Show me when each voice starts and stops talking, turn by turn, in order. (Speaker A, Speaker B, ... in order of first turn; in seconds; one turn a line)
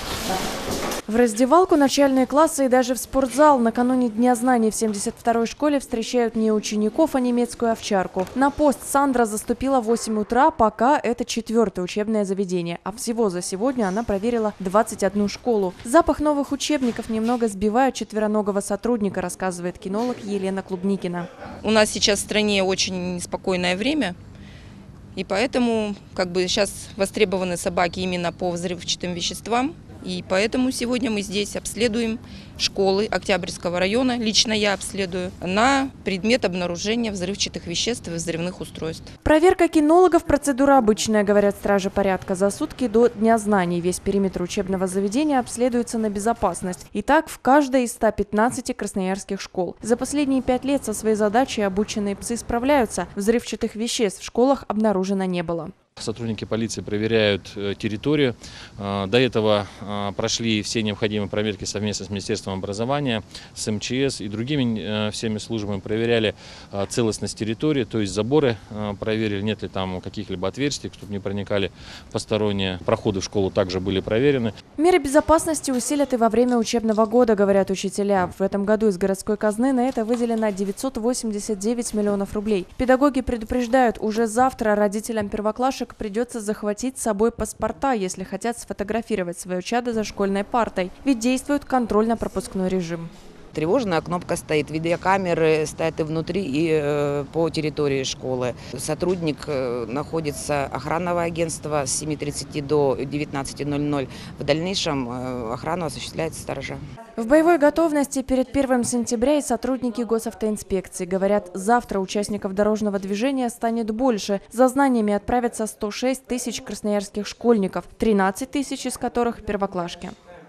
Speaker A: 1.1-21.3
Speaker B: 21.6-24.1
Speaker B: 25.1-39.1
Speaker A: 39.2-55.7
Speaker C: 56.0-74.5
Speaker A: 74.8-93.1
Speaker D: 93.5-106.8
Speaker A: 107.2-120.1